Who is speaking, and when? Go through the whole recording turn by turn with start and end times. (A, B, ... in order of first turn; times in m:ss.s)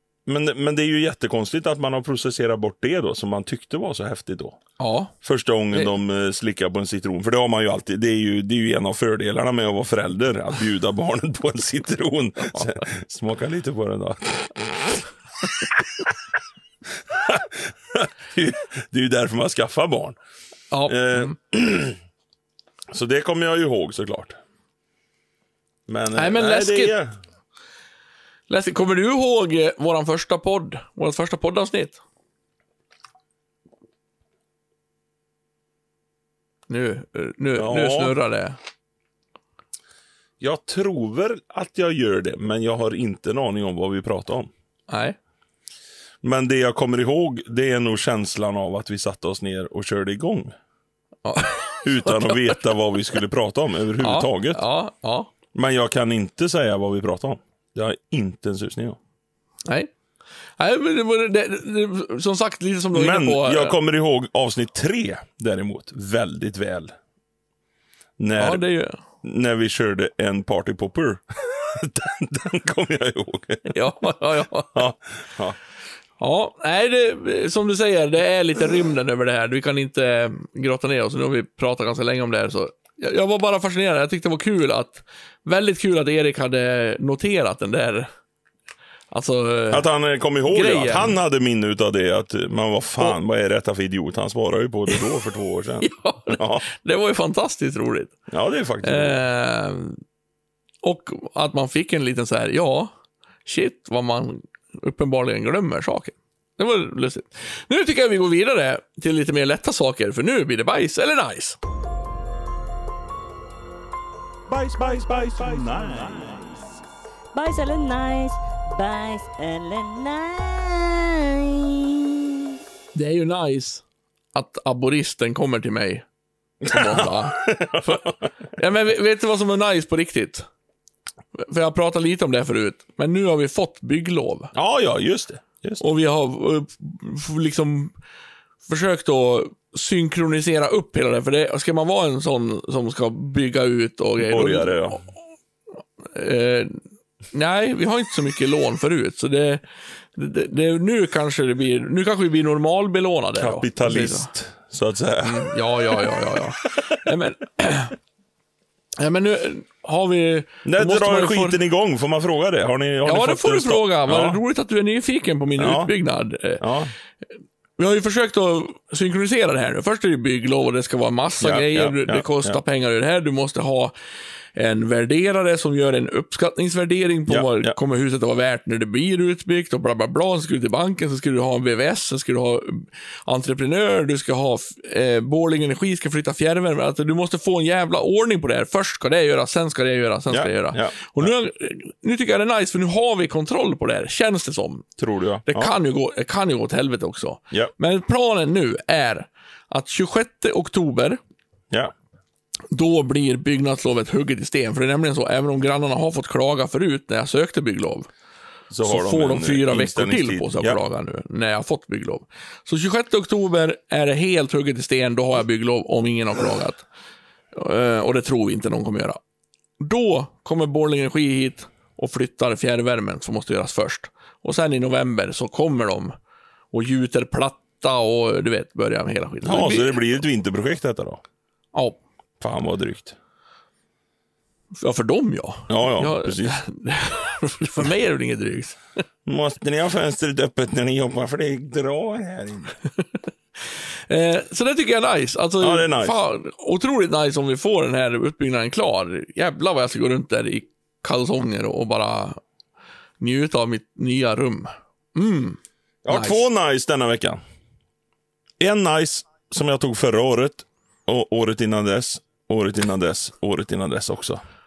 0:00.2-0:04.6 A
0:04.8-0:05.1 B
0:05.2-0:15.0 A
0:12.5-0:12.8 B
0:17.1-0:20.2 A
0:20.7-0:21.4 B
0:20.8-0:22.0 A
0:22.9-0:24.4 A
0:25.9-0:27.2 A
0:26.1-0:27.0 B
0:28.5-0:32.0 B
0:36.7-0:38.6 B
0:37.6-0:38.2 A
0:40.4-0:44.5 A
0:44.9-0:45.2 B
0:46.2-0:50.5 A
0:51.2-0:52.6 B
0:51.8-0:54.6 A
0:54.0-0:55.3 B
0:55.5-0:59.0 A
0:59.6-0:59.9 B
1:00.6-1:03.8 B
1:02.9-1:06.9 A
1:08.2-1:08.6 A
1:08.4-1:09.0 B
1:09.2-1:13.8 A
1:13.7-1:14.8 B
1:14.7-1:15.6 A
1:16.2-1:28.1 B
1:29.1-1:29.9 B
1:29.7-1:36.6 A
1:30.5-1:31.2 B
1:34.9-1:35.2 B
1:35.8-1:38.1 B
1:38.3-1:39.2 A
1:38.8-1:40.0 B
1:40.8-1:42.9 B
1:43.4-1:51.6 B
1:54.5-1:56.6 A
1:57.3-2:02.5 C
2:02.9-2:06.0 B
2:06.6-2:08.3 A
2:06.7-2:10.5 B
2:11.3-2:14.5 B
2:14.5-2:15.8 A
2:15.8-2:17.9 B
2:18.7-2:25.0 B
2:24.2-2:25.0 A
2:26.0-2:34.3 B
2:33.4-2:37.0 A
2:35.2-2:38.0 B
2:39.0-2:41.6 B
2:40.6-2:44.4 A
2:43.0-2:46.6 B
2:45.6-2:45.9 A
2:46.6-2:46.9 A
2:47.8-2:53.9 B
2:51.4-2:52.6 A
2:54.5-3:14.9 B
2:57.3-2:57.8 A
3:10.3-3:11.3 A
3:15.0-3:15.7 A
3:15.5-3:21.2 B
3:22.7-3:28.1 B
3:28.7-3:30.8 A
3:28.8-3:36.8 B
3:37.5-3:39.2 B
3:39.8-3:46.1 B
3:46.7-3:50.0 B
3:49.4-3:51.2 A
3:51.7-3:52.0 B
3:52.4-3:53.2 A
3:54.7-3:58.8 B
3:55.7-3:56.6 A
3:59.2-4:02.8 A
4:03.0-4:12.4 B
4:05.6-4:06.2 A
4:13.2-4:16.4 B
4:16.0-4:17.4 A
4:18.6-4:24.4 A